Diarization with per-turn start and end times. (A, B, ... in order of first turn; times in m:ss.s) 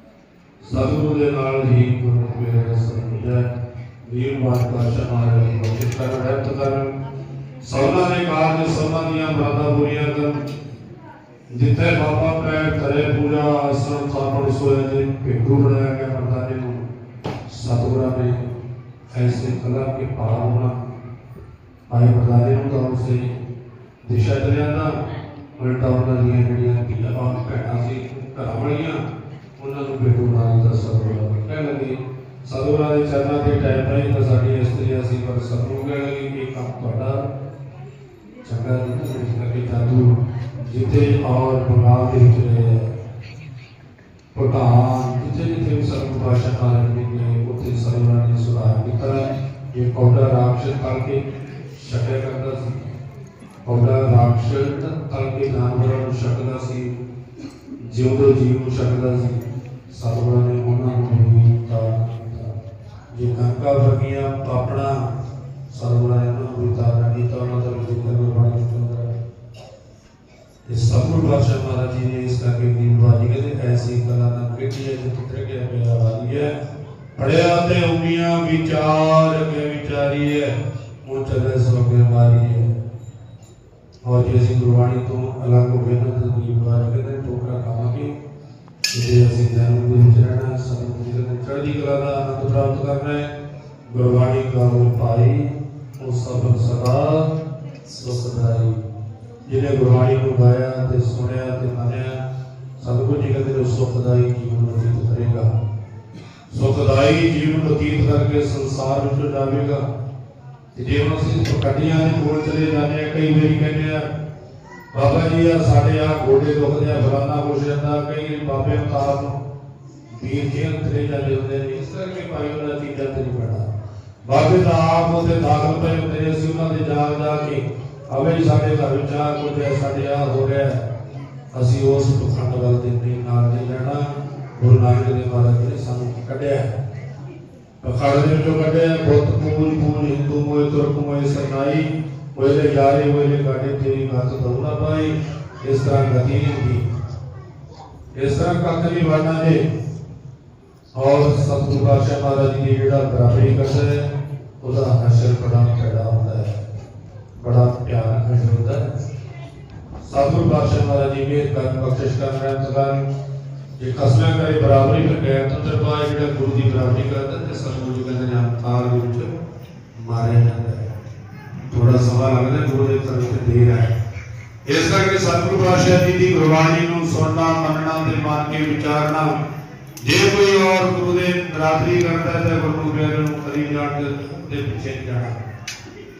0:00.6-0:03.4 A
0:04.0-0:06.9 A
0:07.6-0:10.4 A
0:11.5-0:16.8 A
0:17.5-0:18.4 A
0:19.1-0:20.8 A
0:21.9-0:23.3 A
0:24.0-0:25.0 A
0:25.6-0:29.0 A
0:29.6-0:37.2 A
0:38.4-0:42.9 A
0:44.4-0:52.9 A
0:53.7-0:56.9 A
0:57.9-1:02.5 A
1:03.1-1:05.0 A
1:05.7-1:09.1 A
1:10.7-1:16.5 A
1:17.2-1:22.7 A
1:24.0-1:28.2 A
1:28.9-1:33.3 A
1:33.9-1:37.3 A
1:37.9-1:38.8 A
1:39.5-1:42.2 A
1:42.8-1:45.5 A
1:46.5-1:49.8 A
1:50.8-1:54.1 A
1:54.9-1:59.4 A
2:00.1-2:03.6 A
2:04.3-2:10.8 A
2:11.5-2:14.0 A
2:14.6-2:16.7 A
2:17.8-2:26.8 A
2:28.2-2:29.6 A
2:31.0-2:34.0 A
2:34.6-2:36.6 A
2:37.4-2:38.9 A
2:40.0-2:43.0 A
2:43.8-2:49.3 A
2:50.0-2:50.8 A
2:51.7-2:53.9 A
2:54.7-2:59.4 A
3:00.0-3:05.4 A